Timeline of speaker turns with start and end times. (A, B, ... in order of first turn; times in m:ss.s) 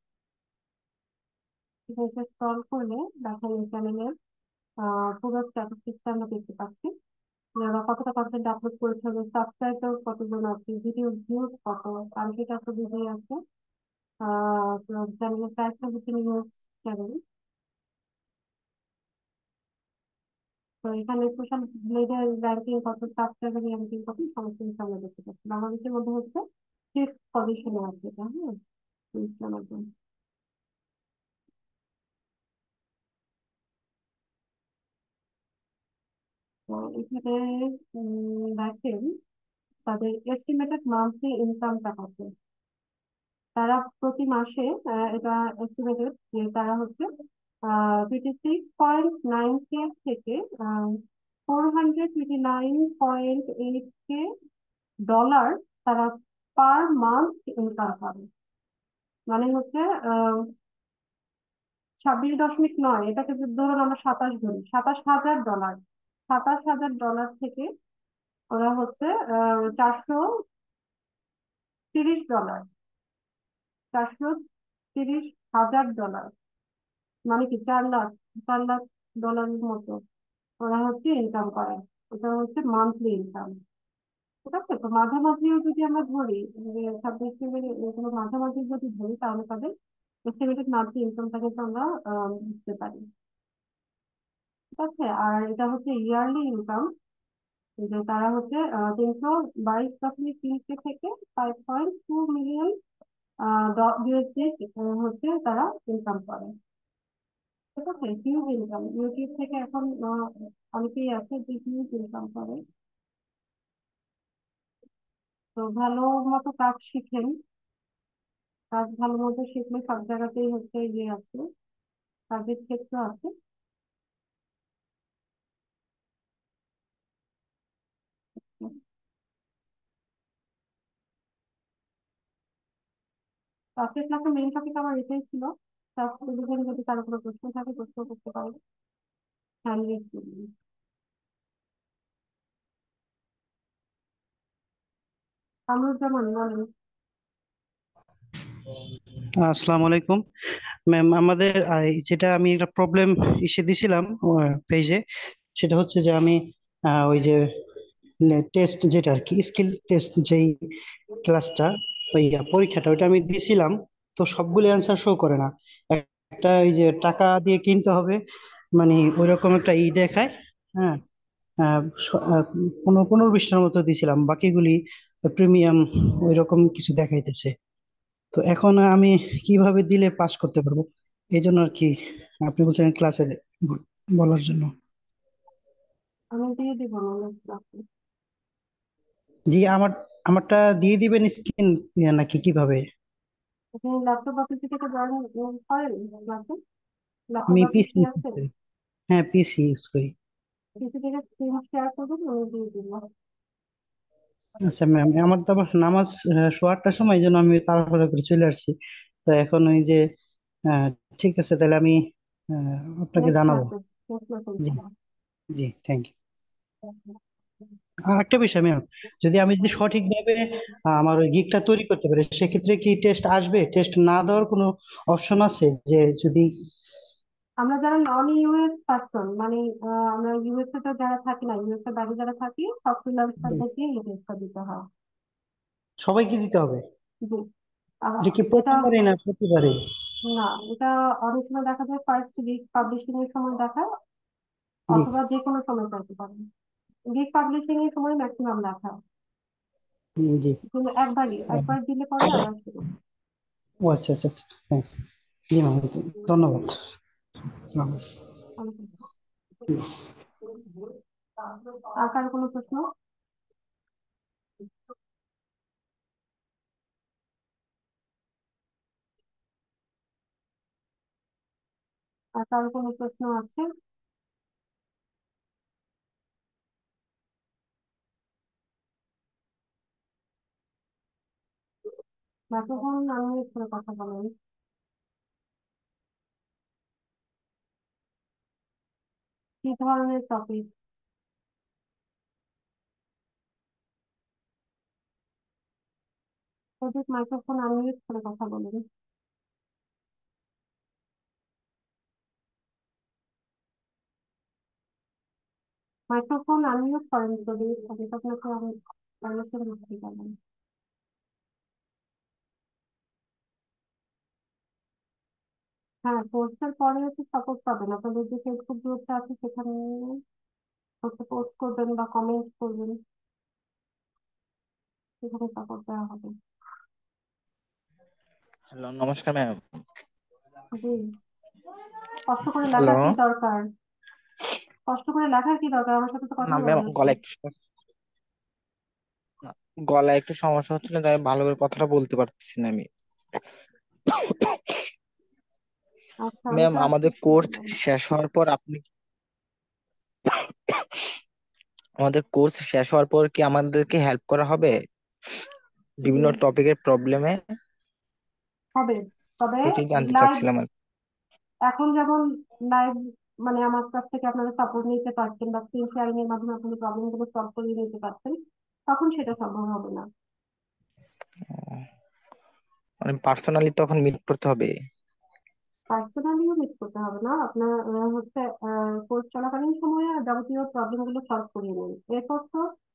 0:01.9-0:04.1 A
0:04.8-0:06.9 A
0:07.6-0:13.4 A
0:14.2-0:17.2 A
0:20.8-0:26.4 A
0:26.9-0:28.6 A
0:29.1-0:29.9 A
0:36.7-0:39.1 A
0:39.9-0:42.3 A
0:43.6-0:47.1 A
0:47.7-0:54.3 A
0:55.1-0:58.3 A
0:59.3-1:00.5 A
1:02.0-1:07.7 A
1:08.5-1:10.2 A
1:11.9-1:12.7 A
1:13.9-1:14.4 A
1:15.0-1:16.3 A
1:17.3-1:20.0 A
1:20.6-1:23.5 A
1:24.4-1:29.7 A
1:30.3-1:33.1 A
1:34.8-1:36.9 A
1:37.8-1:42.7 A
1:43.4-1:46.5 A
1:47.8-1:52.6 A
1:55.6-1:57.4 A
1:58.7-2:01.4 A
2:02.3-2:03.3 A
2:13.8-2:18.6 A
2:19.7-2:20.5 A
2:25.7-2:26.7 A
2:29.4-2:30.2 B
2:30.9-2:35.0 B
2:35.6-2:37.4 B
2:38.2-2:40.6 B
2:41.2-2:48.2 B
2:48.8-2:51.0 B
2:51.6-2:57.6 B
2:58.3-3:01.9 B
3:02.4-3:04.7 B
3:06.4-3:07.8 A
3:09.5-3:12.8 B
3:13.8-3:16.6 A
3:17.3-3:18.4 A
3:17.5-3:18.5 B
3:19.1-3:20.1 B
3:20.8-3:23.0 A
3:24.7-3:28.7 B
3:29.3-3:30.0 B
3:30.7-3:32.0 B
3:32.5-3:33.7 B
3:33.2-3:34.9 A
3:35.5-3:36.1 B
3:36.8-3:37.1 A
3:38.1-3:46.5 B
3:47.6-3:54.8 A
3:56.0-3:56.8 B
3:58.0-3:58.9 A
3:58.2-3:59.7 B
4:00.2-4:03.9 A
4:04.9-4:06.4 A
4:07.1-4:09.0 A
4:10.2-4:10.6 B
4:10.7-4:12.9 A
4:11.5-4:12.4 B
4:13.9-4:15.0 B
4:15.5-4:16.8 B
4:17.6-4:18.0 B
4:18.6-4:19.0 A
4:21.7-4:22.9 A
4:32.4-4:33.7 A
4:42.5-4:44.3 A
4:49.6-4:50.7 A
4:56.8-4:58.8 A
5:06.1-5:10.4 A
5:16.1-5:20.2 A
5:21.0-5:23.0 A
5:25.2-5:26.3 A
5:28.7-5:29.6 C
5:30.8-5:31.0 A
5:32.3-5:33.7 A
5:32.7-5:33.2 C
5:34.9-5:37.2 A
5:36.5-5:37.6 C
5:39.4-5:42.8 C
5:44.1-5:44.8 C
5:46.2-5:47.8 A
5:46.5-5:48.8 C
5:50.3-5:51.0 C
5:52.0-5:54.8 C
5:56.0-5:57.4 C
5:56.1-5:56.4 A
5:58.8-6:00.5 A
5:59.6-6:00.7 C
6:01.7-6:08.4 A
6:08.9-6:10.1 A
6:11.5-6:11.8 C
6:13.0-6:14.7 C
6:15.9-6:22.6 A